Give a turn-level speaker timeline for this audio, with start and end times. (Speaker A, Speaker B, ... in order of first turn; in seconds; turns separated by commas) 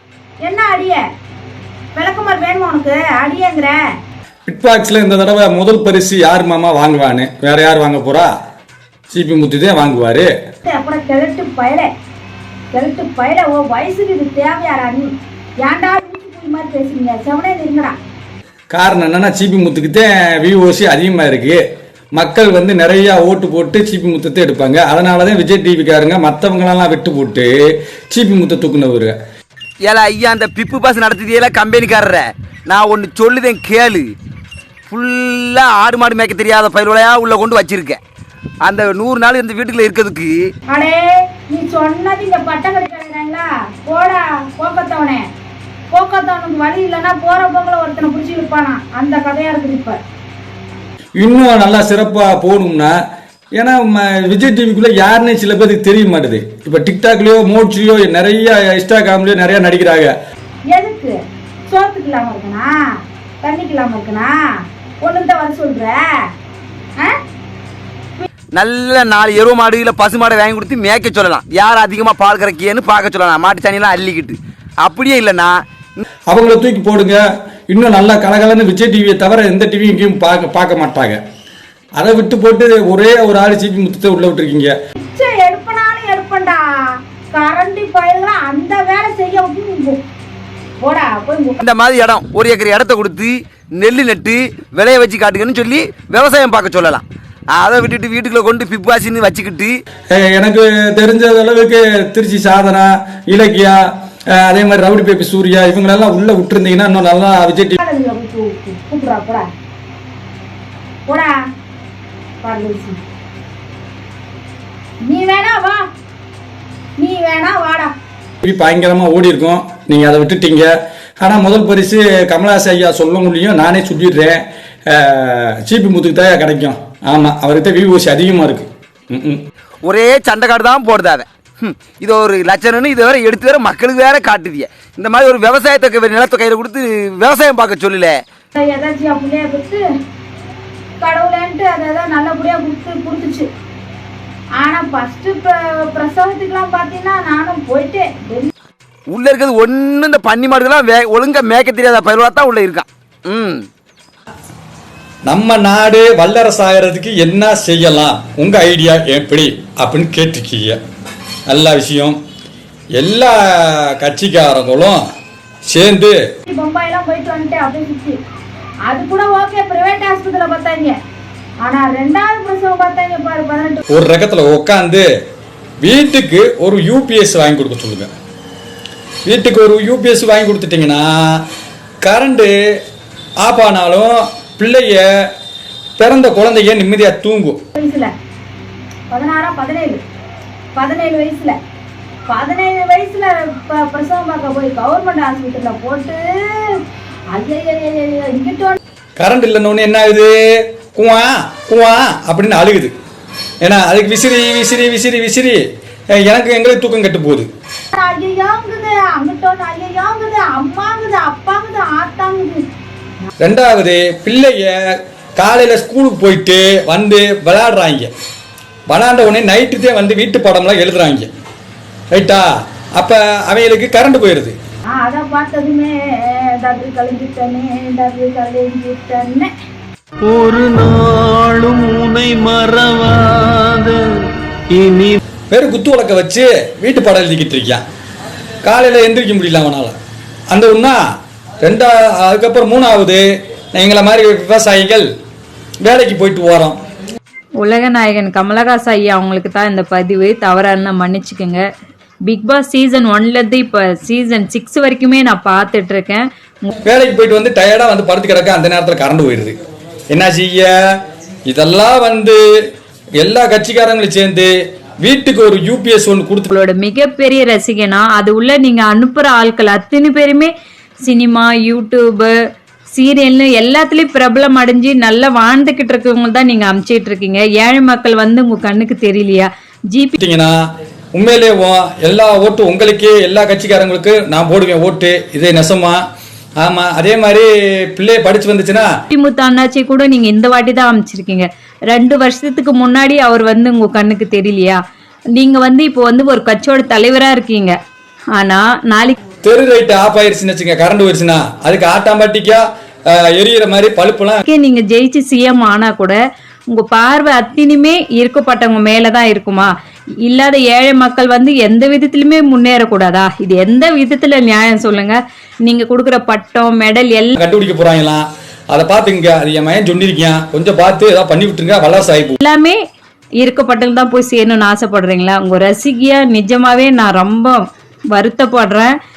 Speaker A: 0.4-1.0, Speaker A: 1.9-3.8, Speaker B: 4.5-8.3, Speaker B: 9.1-10.3, Speaker A: 10.7-11.9, Speaker A: 12.7-17.9, Speaker B: 18.7-21.6, Speaker B: 22.1-27.5, Speaker B: 28.1-29.1, Speaker C: 29.8-34.1, Speaker C: 34.9-38.0, Speaker C: 38.6-40.3, Speaker A: 40.7-45.2, Speaker A: 45.9-50.0, Speaker B: 51.2-52.9, Speaker B: 53.5-60.1, Speaker A: 60.7-61.1, Speaker A: 61.7-62.7, Speaker A: 63.4-64.3, Speaker A: 65.0-66.0, Speaker C: 68.5-76.0, Speaker B: 76.3-81.2, Speaker B: 82.0-84.7, Speaker A: 85.0-86.6, Speaker A: 87.3-90.0, Speaker A: 90.8-91.6, Speaker C: 91.6-99.7, Speaker B: 100.1-103.8, Speaker B: 104.3-107.8, Speaker A: 107.8-109.4, Speaker A: 111.1-111.3, Speaker A: 112.4-113.0, Speaker A: 115.0-115.8, Speaker A: 117.0-117.9, Speaker B: 118.4-120.7, Speaker B: 121.2-129.4, Speaker C: 129.8-138.1, Speaker A: 138.5-139.8, Speaker A: 141.0-143.5, Speaker A: 144.6-148.5, Speaker C: 149.1-153.6, Speaker B: 155.3-160.8, Speaker B: 161.5-162.2, Speaker B: 162.9-165.0, Speaker B: 165.7-166.2, Speaker A: 166.4-168.2, Speaker A: 168.9-170.9, Speaker A: 171.6-173.8, Speaker B: 173.9-175.1, Speaker B: 175.8-178.1, Speaker B: 179.2-181.4, Speaker B: 182.0-182.5, Speaker B: 183.4-185.0, Speaker B: 186.0-187.6, Speaker A: 187.8-188.1, Speaker A: 189.1-190.0, Speaker A: 190.7-191.6, Speaker A: 192.3-196.8, Speaker A: 197.3-198.8, Speaker B: 199.2-202.9, Speaker B: 203.6-205.6, Speaker B: 206.2-207.5, Speaker A: 207.9-212.6, Speaker B: 213.4-218.1, Speaker B: 218.9-221.3, Speaker B: 222.1-224.6, Speaker A: 224.9-229.5, Speaker D: 230.2-233.9, Speaker D: 234.7-235.2, Speaker B: 235.5-237.8, Speaker B: 238.6-239.9, Speaker B: 240.5-241.0, Speaker B: 241.6-243.2, Speaker B: 243.7-245.1, Speaker B: 245.8-246.8, Speaker E: 247.6-251.6, Speaker E: 252.2-256.7, Speaker B: 256.8-259.6, Speaker B: 260.1-260.7, Speaker B: 261.5-262.4, Speaker B: 263.2-266.5, Speaker E: 266.5-270.5, Speaker E: 271.0-272.3, Speaker E: 272.9-280.1, Speaker B: 280.2-280.6, Speaker B: 281.1-286.0, Speaker B: 286.6-288.9, Speaker E: 289.1-294.8, Speaker E: 295.4-297.8, Speaker E: 298.3-299.2, Speaker B: 299.4-304.4, Speaker E: 304.4-306.2, Speaker E: 306.7-309.7, Speaker E: 310.2-317.3, Speaker B: 317.3-322.4, Speaker E: 322.4-322.8, Speaker E: 323.4-328.9